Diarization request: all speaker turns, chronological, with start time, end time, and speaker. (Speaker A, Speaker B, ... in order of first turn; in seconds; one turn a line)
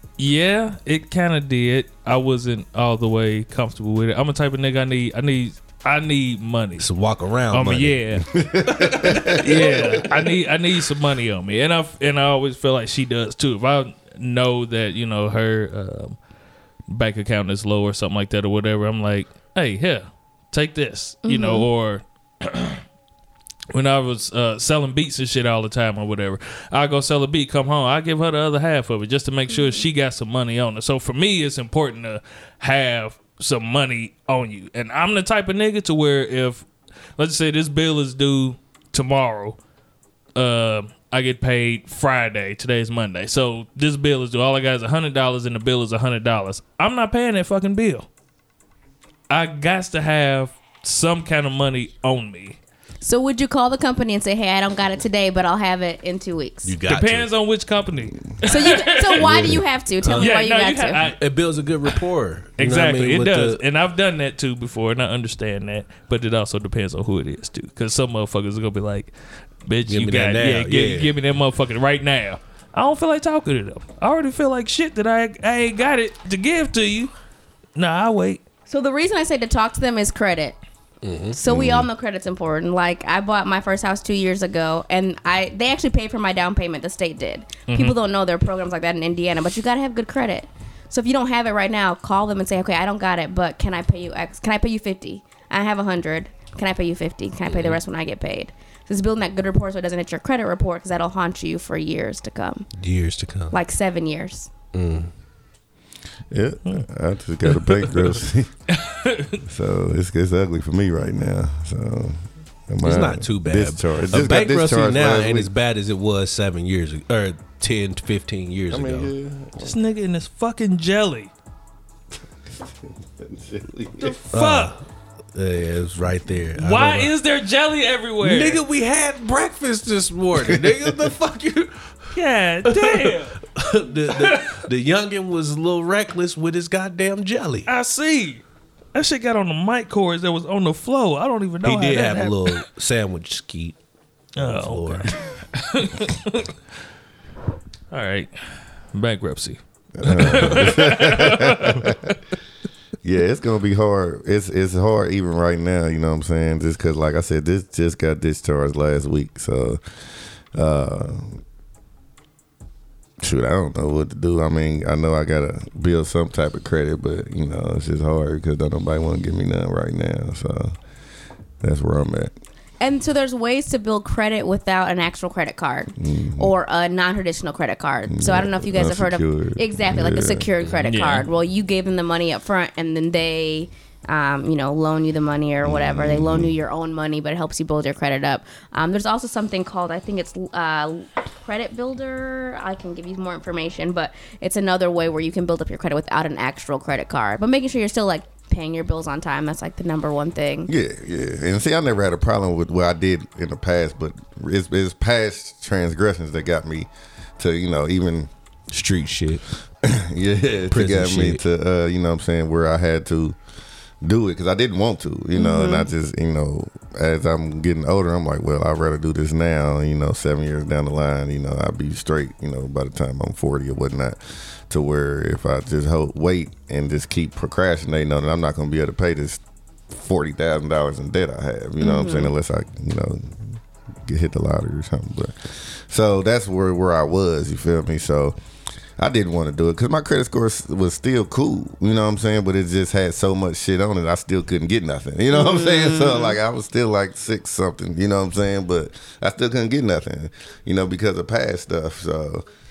Speaker A: 0.2-6.9
Speaker B: 6.8-8.0
Speaker A: 7.5-8.3
Speaker C: 8.3-9.9
Speaker B: 8.6-10.0
Speaker A: 9.3-16.2
Speaker A: 16.9-22.8
Speaker D: 21.2-21.7
Speaker A: 23.7-36.7
Speaker A: 37.2-39.6
Speaker A: 40.4-48.1
Speaker A: 49.3-52.6
Speaker D: 53.0-56.8
Speaker B: 56.6-57.3
Speaker A: 56.9-59.3
Speaker D: 58.5-61.1
Speaker C: 59.2-59.6
Speaker B: 59.2-59.5
Speaker A: 60.0-61.2
Speaker B: 60.1-60.3
Speaker B: 61.0-63.6
Speaker A: 62.6-77.1
Speaker B: 69.9-71.1
Speaker A: 77.8-78.4
Speaker D: 78.7-80.6
Speaker B: 81.0-81.4
Speaker D: 81.3-102.7
Speaker C: 81.5-81.9
Speaker A: 87.7-88.0
Speaker B: 97.5-97.8
Speaker B: 102.8-103.6
Speaker D: 103.5-104.5
Speaker B: 104.7-105.1
Speaker C: 106.3-108.5
Speaker A: 107.5-108.1
Speaker A: 108.7-109.4
Speaker C: 109.4-115.5
Speaker B: 112.8-119.1
Speaker C: 118.7-119.8
Speaker A: 119.6-121.3
Speaker C: 122.5-124.2
Speaker A: 124.0-124.7
Speaker B: 124.3-127.1
Speaker A: 126.5-128.6
Speaker B: 128.2-131.9
Speaker A: 132.1-133.3
Speaker B: 132.7-137.7
Speaker A: 134.1-134.6
Speaker A: 137.7-138.4
Speaker A: 138.9-142.6
Speaker B: 141.6-143.8
Speaker A: 144.4-146.5
Speaker B: 144.4-145.2
Speaker A: 147.9-152.2
Speaker C: 150.0-152.0
Speaker B: 150.2-150.7
Speaker C: 153.0-159.8
Speaker C: 160.5-161.4
Speaker C: 163.2-170.8
Speaker C: 171.6-172.3
Speaker D: 172.8-200.7
Speaker C: 176.0-176.5
Speaker C: 178.1-180.5
Speaker A: 180.8-181.2
Speaker C: 185.6-186.6
Speaker C: 200.7-208.3
Speaker B: 208.7-209.4
Speaker C: 209.8-213.4
Speaker B: 210.7-211.4
Speaker C: 214.0-238.4
Speaker D: 215.3-215.9
Speaker D: 231.8-232.3
Speaker C: 239.0-252.4